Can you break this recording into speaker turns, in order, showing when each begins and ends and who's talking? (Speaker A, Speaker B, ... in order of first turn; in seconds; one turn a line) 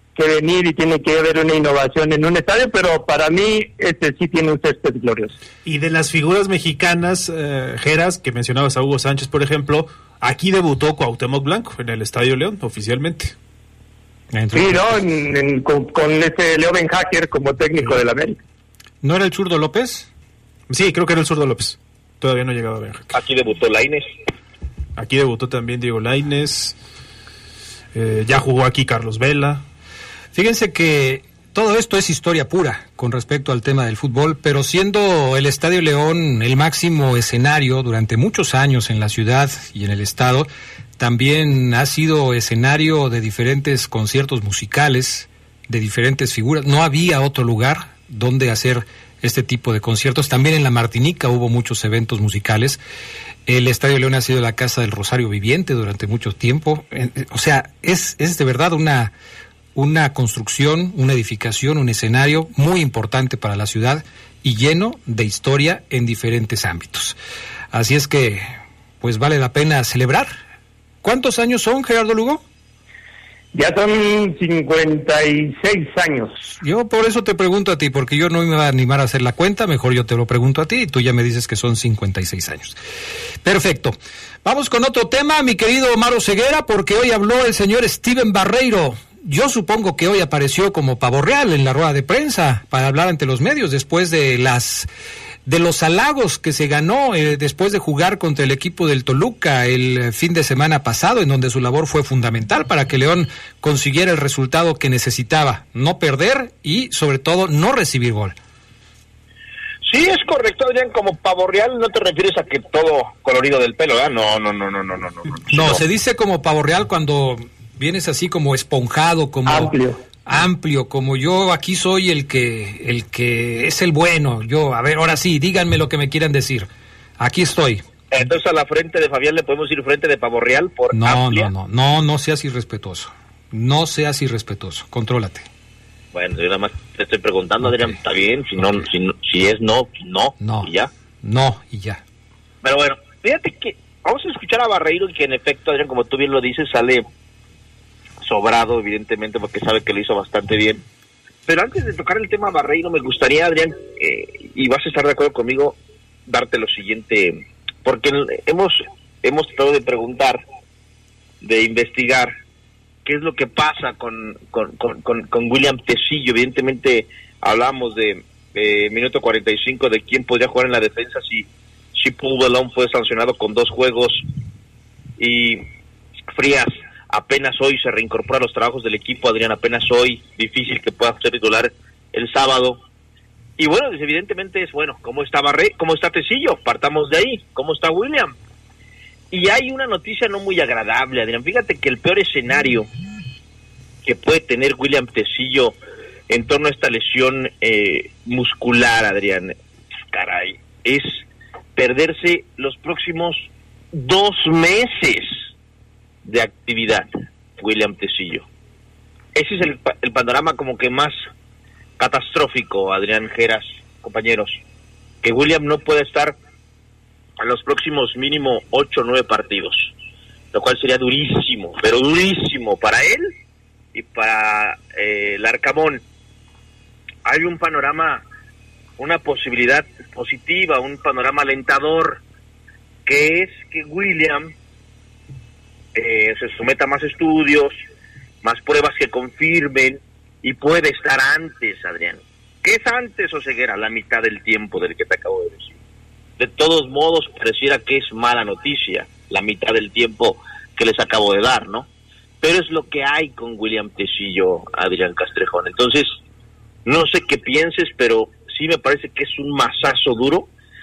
Speaker A: 0.2-5.4
Speaker B: 5.7-13.3
Speaker C: 14.3-15.0
Speaker A: 14.5-18.4
Speaker C: 19.0-20.1
Speaker B: 20.7-23.1
Speaker D: 23.1-24.1
Speaker B: 25.0-26.8
Speaker B: 27.9-29.6
Speaker C: 30.3-40.5
Speaker C: 41.0-52.8
Speaker C: 53.5-59.1
Speaker C: 59.8-67.2
Speaker C: 67.7-68.5
Speaker C: 69.0-70.3
Speaker C: 71.0-72.4
Speaker A: 73.5-76.4
Speaker C: 76.6-82.8
Speaker C: 83.4-94.9
Speaker C: 95.5-108.4
Speaker D: 109.9-115.8
Speaker C: 115.5-119.7
Speaker A: 119.5-120.0
Speaker C: 120.2-126.7
Speaker C: 127.2-127.8
Speaker D: 128.1-131.5
Speaker C: 130.9-135.5
Speaker D: 136.1-140.9
Speaker C: 140.4-142.0
Speaker D: 142.6-147.1
Speaker D: 148.2-150.8
Speaker D: 151.5-160.4
Speaker D: 161.4-162.3
Speaker D: 163.1-174.2
Speaker D: 175.2-175.7
Speaker D: 176.3-182.8
Speaker D: 183.6-188.4
Speaker D: 189.3-192.9
Speaker D: 194.1-195.8
Speaker D: 196.3-199.5
Speaker D: 200.1-201.2
Speaker D: 201.8-205.3
Speaker D: 206.2-207.1
Speaker D: 207.6-208.5
Speaker D: 209.3-211.2
Speaker D: 212.0-214.6
Speaker D: 215.2-216.4
Speaker D: 217.4-219.9
Speaker D: 220.5-223.3
Speaker D: 223.9-226.0
Speaker D: 227.2-228.2
Speaker D: 229.0-232.2
Speaker D: 233.1-234.5
Speaker D: 235.9-237.7
Speaker D: 238.4-245.8
Speaker D: 246.4-251.9
Speaker D: 252.4-256.1
Speaker D: 256.9-260.5